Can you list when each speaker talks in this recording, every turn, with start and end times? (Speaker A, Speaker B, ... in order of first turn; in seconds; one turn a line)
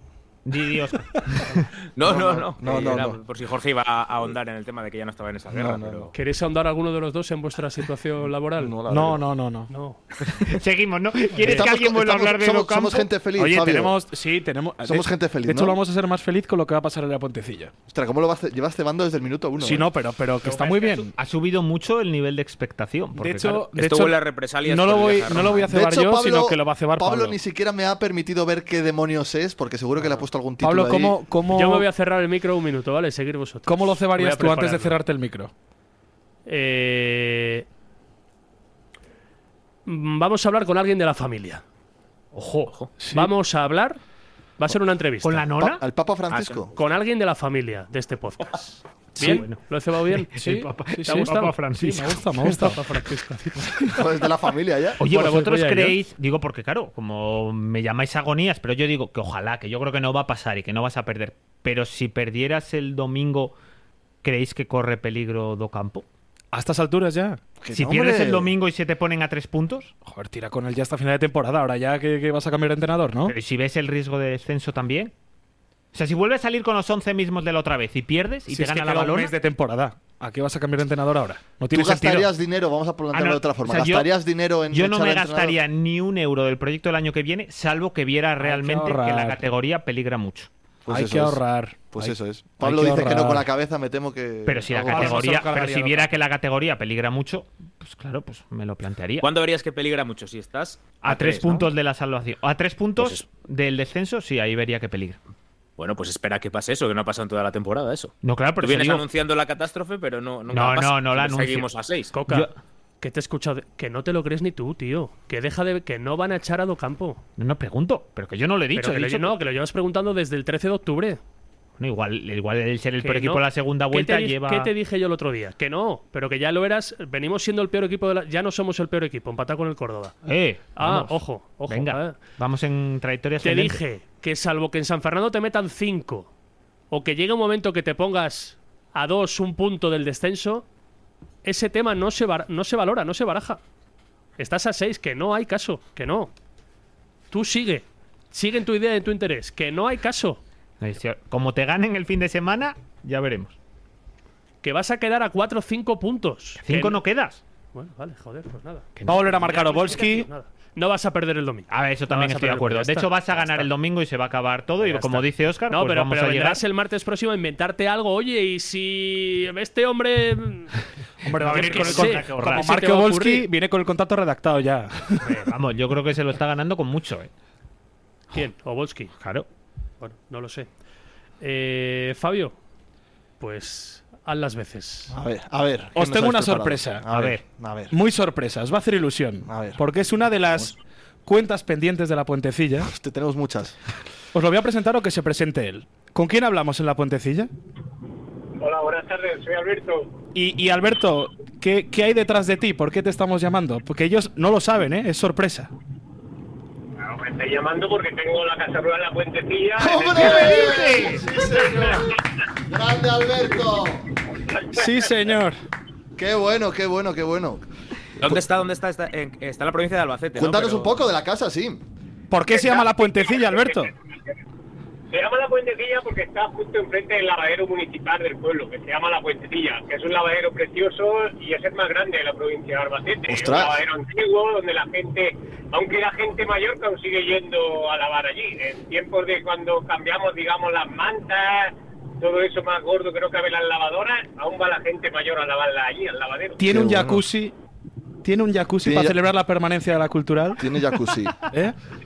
Speaker A: 0.4-1.7
Speaker B: 1.9-6.1
Speaker C: 2.0-3.2
Speaker C: 5.5-6.1
Speaker D: 6.1-8.7
Speaker C: 8.6-9.2
Speaker E: 8.9-9.7
Speaker D: 9.7-10.0
Speaker A: 10.3-13.1
Speaker C: 11.4-14.0
Speaker E: 13.4-17.7
Speaker C: 14.8-15.8
Speaker C: 17.9-19.9
Speaker E: 19.6-21.1
Speaker A: 20.4-23.7
Speaker E: 23.1-27.4
Speaker B: 23.7-25.7
Speaker C: 25.7-31.2
Speaker E: 30.6-31.9
Speaker D: 31.5-35.0
Speaker E: 33.6-35.5
Speaker D: 36.5-37.6
Speaker D: 39.9-41.6
Speaker E: 43.0-43.3
Speaker D: 43.1-44.0
Speaker D: 44.6-45.4
Speaker A: 45.2-45.8
Speaker C: 45.6-46.7
Speaker B: 46.3-46.7
Speaker D: 46.7-50.3
Speaker E: 49.2-49.4
Speaker A: 49.2-49.6
Speaker A: 50.3-52.2
Speaker E: 50.4-52.8
Speaker D: 51.0-51.5
Speaker D: 52.4-53.9
Speaker C: 53.9-55.0
Speaker A: 55.0-63.5
Speaker D: 55.0-56.0
Speaker A: 64.2-66.0
Speaker E: 66.5-67.4
Speaker C: 67.6-68.5
Speaker A: 67.7-69.9
Speaker E: 70.0-73.3
Speaker A: 73.3-75.1
Speaker A: 75.9-79.3
Speaker E: 78.5-82.3
Speaker C: 81.7-85.6
Speaker A: 83.1-84.1
Speaker A: 84.7-90.5
Speaker E: 88.4-89.4
Speaker C: 90.8-91.4
Speaker E: 90.9-93.5
Speaker C: 91.9-95.3
Speaker A: 94.5-99.3
Speaker E: 94.8-96.1
Speaker B: 99.2-101.7
Speaker A: 101.0-105.2
Speaker B: 103.0-103.2
Speaker B: 105.8-112.1
Speaker A: 108.2-109.0
Speaker A: 110.5-111.7
Speaker D: 112.1-112.5
Speaker D: 113.0-117.2
Speaker A: 117.4-119.3
Speaker D: 118.7-121.2
Speaker A: 121.8-124.7
Speaker D: 123.0-130.1
Speaker A: 130.2-133.8
Speaker D: 130.8-132.2
Speaker D: 133.4-136.3
Speaker D: 136.9-140.7
Speaker D: 141.4-143.6
Speaker D: 144.4-146.3
Speaker D: 147.3-150.4
Speaker A: 150.8-153.6
Speaker D: 154.6-157.0
Speaker A: 156.6-157.4
Speaker D: 157.7-163.7
Speaker E: 159.1-160.3
Speaker A: 161.7-166.6
Speaker D: 164.8-170.8
Speaker E: 171.2-175.3
Speaker A: 171.4-172.7
Speaker D: 171.4-173.5
Speaker A: 175.3-177.3
Speaker D: 178.3-179.1
Speaker A: 179.2-179.4
Speaker D: 180.0-180.7
Speaker D: 181.4-182.5
Speaker D: 183.4-185.1
Speaker C: 185.1-187.9
Speaker E: 185.9-187.1
Speaker A: 187.1-187.4
Speaker E: 187.9-192.9
Speaker C: 189.4-189.8
Speaker C: 192.8-193.8
Speaker E: 194.3-197.5
Speaker F: 198.6-200.1
Speaker E: 200.3-205.7
Speaker F: 207.0-210.8
Speaker C: 209.8-214.1
Speaker E: 210.2-210.7
Speaker A: 210.4-211.2
Speaker E: 214.7-215.6
Speaker C: 216.2-217.6
Speaker B: 218.2-221.0
Speaker C: 220.3-221.8
Speaker E: 222.3-223.9
Speaker F: 222.5-223.9
Speaker F: 225.1-246.6
Speaker C: 233.3-233.8
Speaker E: 246.6-247.5
Speaker C: 246.6-247.2
Speaker E: 248.2-250.6
Speaker C: 248.8-249.2
Speaker C: 250.6-251.3
Speaker E: 251.4-251.7